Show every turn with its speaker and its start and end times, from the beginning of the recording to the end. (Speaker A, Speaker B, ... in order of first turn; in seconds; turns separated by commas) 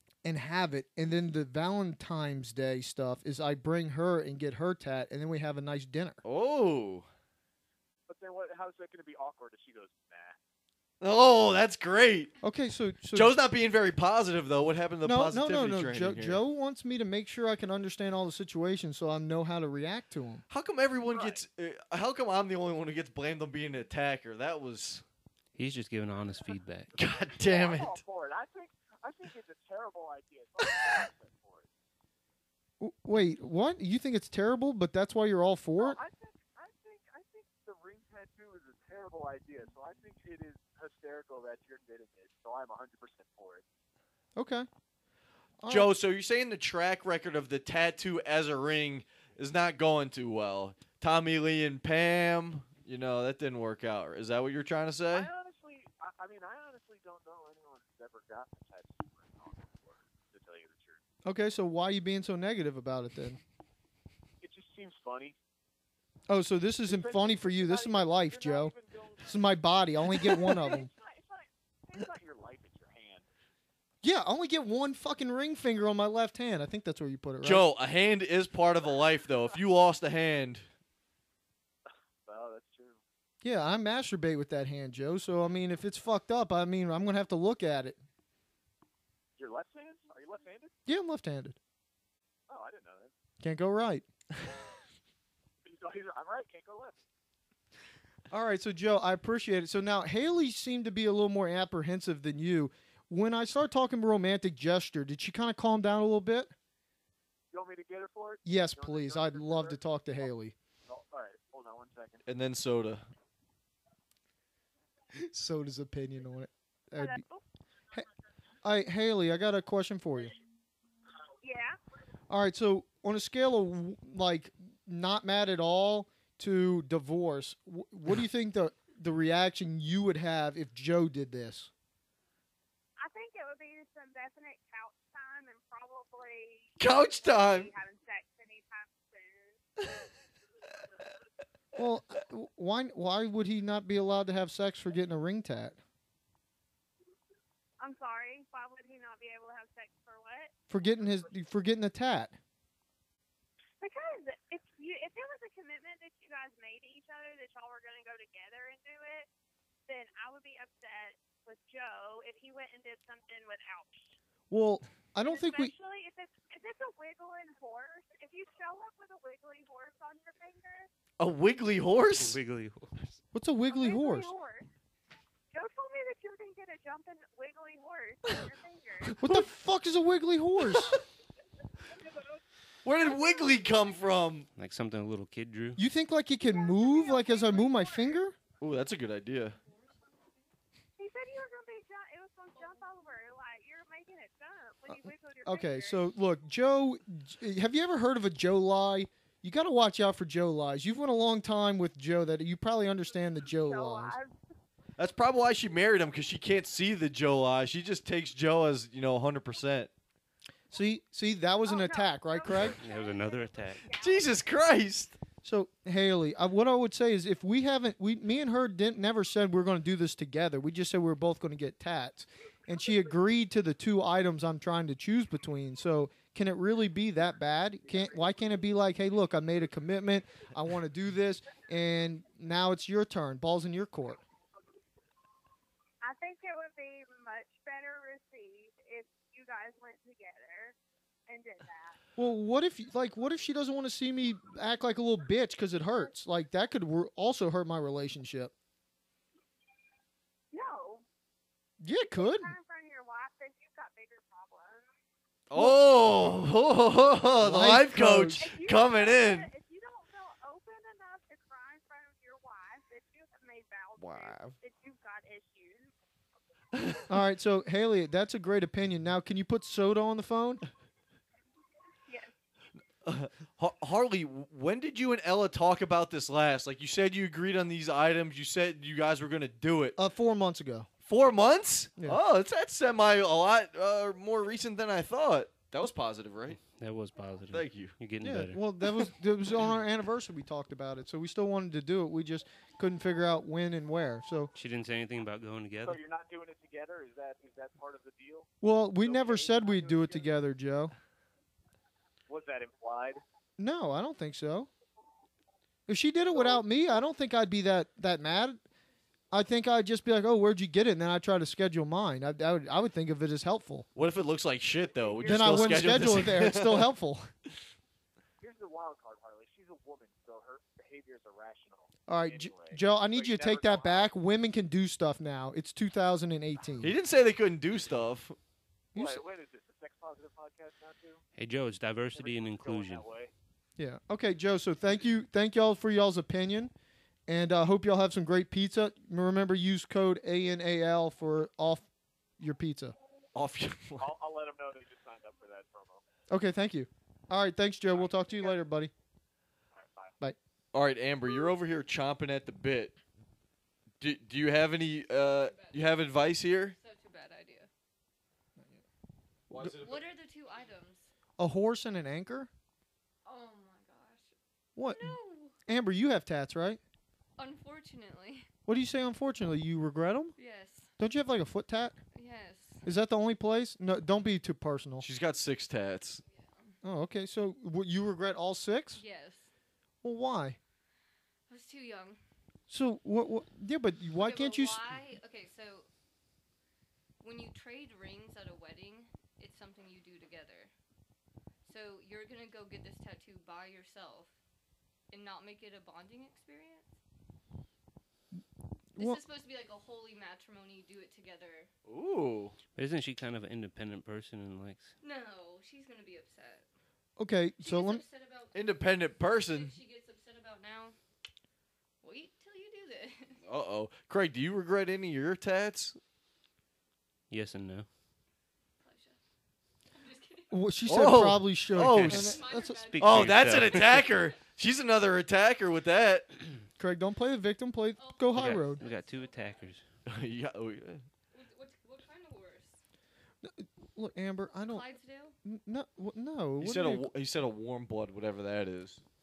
Speaker A: 0.2-6.2, Speaker B: 6.2-7.1, Speaker C: 8.1-10.4, Speaker B: 11.0-12.3, Speaker A: 12.4-13.3, Speaker B: 13.1-16.4, Speaker A: 15.0-20.4, Speaker B: 20.5-25.0, Speaker C: 21.0-21.4, Speaker D: 25.6-26.9, Speaker C: 26.9-31.7, Speaker B: 26.9-27.9, Speaker A: 32.8-36.0, Speaker C: 35.8-43.6, Speaker A: 44.4-44.7, Speaker A: 45.6-45.9, Speaker B: 45.7-55.3, Speaker C: 55.1-61.0, Speaker A: 61.2-63.4, Speaker C: 64.4-65.4, Speaker A: 66.3-68.7, Speaker C: 66.9-69.4, Speaker A: 69.2-70.9, Speaker E: 70.4-71.4, Speaker C: 70.5-70.9, Speaker C: 71.9-73.2, Speaker A: 74.0-77.7, Speaker B: 77.4-80.7, Speaker C: 82.2-83.0, Speaker A: 83.4-88.0, Speaker C: 89.4-90.7, Speaker A: 90.8-91.6, Speaker C: 92.5-93.1, Speaker A: 93.4-94.0, Speaker C: 95.6-97.0, Speaker A: 98.3-106.5, Speaker C: 107.5-109.8, Speaker A: 108.4-110.5, Speaker C: 110.8-112.2, Speaker B: 112.2-113.1, Speaker A: 115.1-117.2, Speaker E: 117.0-117.4, Speaker A: 118.6-120.3, Speaker E: 121.4-121.8, Speaker A: 122.3-131.7, Speaker E: 133.0-139.6, Speaker B: 136.8-137.7, Speaker A: 141.8-145.8, Speaker E: 147.8-150.5, Speaker A: 150.7-152.4, Speaker E: 153.8-159.3, Speaker E: 159.9-164.1, Speaker A: 164.5-165.7, Speaker E: 165.2-170.9, Speaker B: 171.2-172.4, Speaker D: 172.1-173.2, Speaker A: 173.3-174.3, Speaker E: 173.7-174.7, Speaker E: 175.5-179.2, Speaker A: 179.2-181.0, Speaker B: 182.8-184.5, Speaker E: 183.0-184.0, Speaker D: 184.6-185.8, Speaker A: 185.8-188.3, Speaker E: 186.4-188.2, Speaker B: 188.6-189.6, Speaker F: 189.6-190.4, Speaker E: 191.0-196.0, Speaker F: 192.5-192.8, Speaker A: 194.9-204.2, Speaker E: 203.4-204.3, Speaker B: 205.0-209.9, Speaker A: 210.7-212.8, Speaker E: 211.6-214.4, Speaker D: 212.8-213.8, Speaker B: 213.9-215.2, Speaker A: 215.4-234.2, Speaker E: 236.0-240.8, Speaker E: 241.3-242.0, Speaker A: 242.2-248.5, Speaker E: 250.5-251.0, Speaker A: 251.8-252.5, Speaker E: 252.2-254.8, Speaker B: 255.5-259.5, Speaker A: 257.4-258.4, Speaker E: 258.4-265.9, Speaker B: 264.0-264.6, Speaker B: 266.7-267.0, Speaker A: 267.1-270.6, Speaker E: 272.1-272.3, Speaker B: 273.0-280.0, Speaker A: 280.0-280.9, Speaker B: 281.0-286.6, Speaker D: 286.6-288.6, Speaker B: 287.5-287.9, Speaker A: 288.2-294.5, Speaker D: 294.5-296.0, Speaker C: 295.8-298.5, Speaker A: 298.6-300.9, Speaker C: 299.0-300.3, Speaker C: 302.3-303.2, Speaker A: 303.6-304.7, Speaker A: 305.9-308.6, Speaker A: 309.3-313.9, Speaker B: 313.9-316.9, Speaker C: 314.9-316.2, Speaker A: 315.2-317.3, Speaker C: 318.4-324.1, Speaker A: 322.1-326.9, Speaker B: 326.8-328.4, Speaker C: 328.9-331.2, Speaker A: 328.9-329.2, Speaker D: 331.4-333.0, Speaker C: 332.1-333.3, Speaker A: 333.8-336.7, Speaker A: 337.3-341.9, Speaker A: 342.4-342.9, Speaker B: 343.3-344.1, Speaker C: 344.0-346.0, Speaker A: 346.3-348.9, Speaker C: 347.9-348.5, Speaker C: 349.7-350.1, Speaker B: 350.7-353.0, Speaker B: 354.0-356.8, Speaker F: 355.2-355.9, Speaker F: 356.7-357.7, Speaker B: 359.5-360.1, Speaker F: 359.5-361.1, Speaker A: 361.4-362.5, Speaker F: 363.2-365.5, Speaker A: 364.8-366.8, Speaker F: 367.4-368.5, Speaker A: 368.6-370.4, Speaker F: 370.4-370.9, Speaker A: 371.0-371.9, Speaker F: 372.1-372.8, Speaker A: 372.8-375.1, Speaker B: 375.0-376.2, Speaker F: 376.2-376.7, Speaker A: 376.8-379.0, Speaker F: 378.9-379.5, Speaker A: 380.0-380.6, Speaker F: 381.5-382.2, Speaker A: 382.7-384.8, Speaker F: 384.1-385.9, Speaker F: 387.2-390.7, Speaker F: 391.6-394.3, Speaker F: 395.1-396.9, Speaker F: 398.9-401.7, Speaker B: 401.9-402.6, Speaker D: 402.8-404.9, Speaker F: 405.0-406.6, Speaker A: 407.2-408.0, Speaker F: 407.6-410.9, Speaker B: 408.5-409.7, Speaker F: 412.0-413.4, Speaker B: 413.4-416.0, Speaker D: 417.3-417.9, Speaker F: 418.8-419.2, Speaker F: 419.9-420.5, Speaker A: 420.5-422.9, Speaker B: 420.9-422.4, Speaker D: 421.8-422.3, Speaker F: 422.1-424.1, Speaker D: 422.9-424.1, Speaker B: 423.0-426.3, Speaker A: 426.8-428.8, Speaker F: 427.9-429.7, Speaker D: 428.3-429.8, Speaker B: 430.1-431.0, Speaker F: 431.3-432.8, Speaker A: 433.4-434.8, Speaker F: 434.6-435.3, Speaker A: 435.4-437.1, Speaker B: 436.6-439.0